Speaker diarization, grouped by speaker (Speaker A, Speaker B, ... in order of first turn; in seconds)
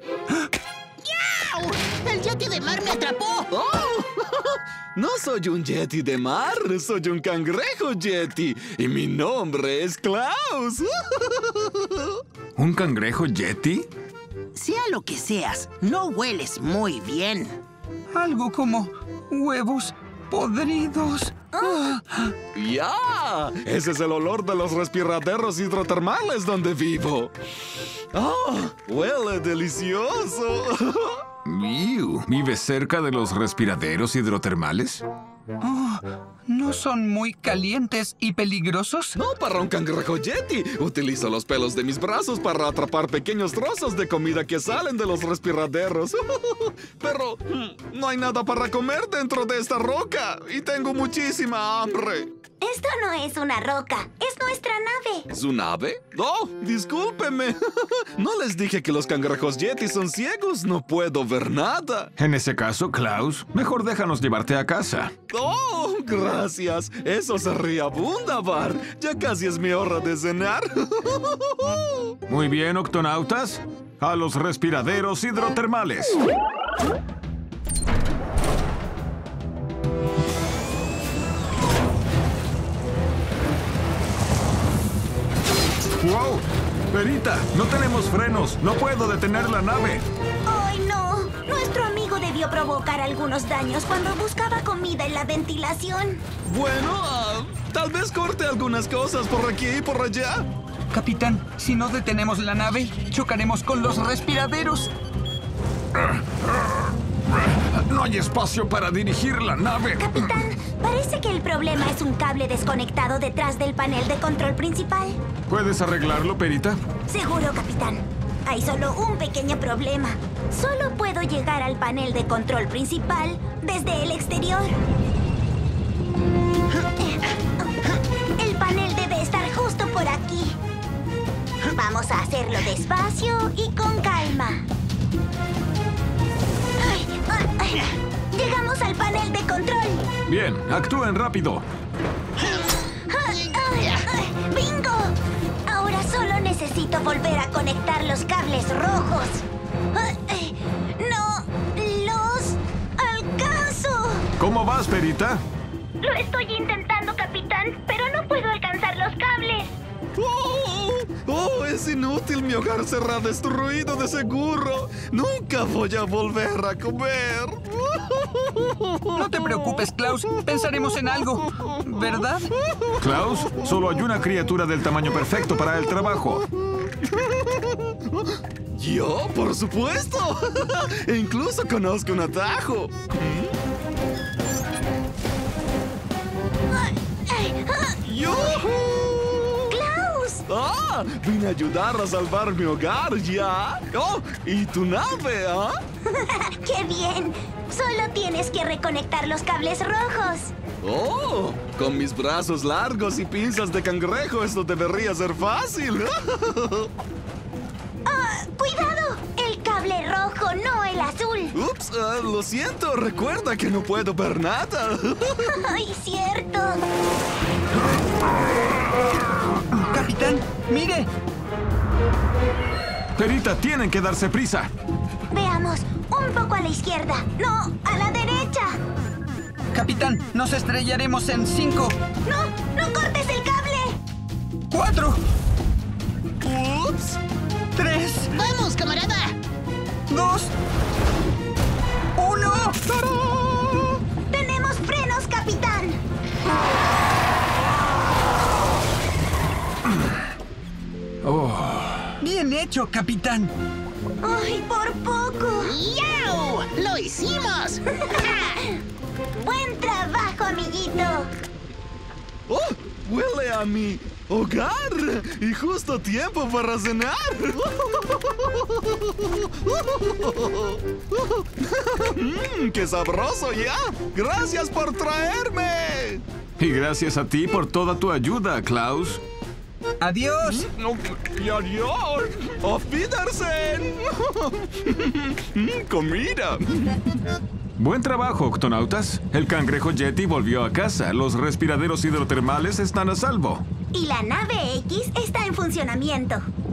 Speaker A: 1.0-3.5, 14.5-17.6, 238.3-239.4, 255.6-257.8
Speaker B: 3.5-12.1, 22.5-27.3, 28.1-31.2, 39.1-52.3, 55.3-62.1, 65.3-72.0, 96.5-100.5, 160.2-169.0, 177.1-177.6, 178.8-183.6, 188.1-189.7, 190.5-195.8, 200.8-206.9, 211.5-215.4, 236.4-237.2, 243.1-243.9, 262.5-276.2, 280.4-287.0
Speaker C: 12.6-13.9, 31.5-35.0, 62.2-65.1, 72.3-76.2, 86.0-90.0, 107.4-110.3, 115.5-116.8, 140.3-141.6, 154.4-155.4, 173.0-176.4, 223.2-224.7, 251.2-252.1, 276.6-279.2, 287.8-293.6
Speaker D: 18.1-22.3, 35.6-39.1, 100.9-104.9, 169.2-172.5, 219.8-221.1, 229.7-232.0, 234.7-235.2, 237.7-238.3, 240.1-240.5, 242.2-243.1, 252.2-253.5, 280.0-280.7
Speaker E: 52.6-55.3, 90.5-96.2, 110.0-115.2, 117.1-124.8, 127.0-130.6, 131.7-134.6, 136.8-140.1, 143.1-154.2, 156.0-159.7, 186.7-188.6, 189.7-190.4, 196.1-200.5, 208.0-211.6, 215.5-216.8, 225.3-228.8, 232.2-234.0, 244.3-246.0, 254.2-255.7, 258.1-258.7, 259.4-261.3, 293.9-296.5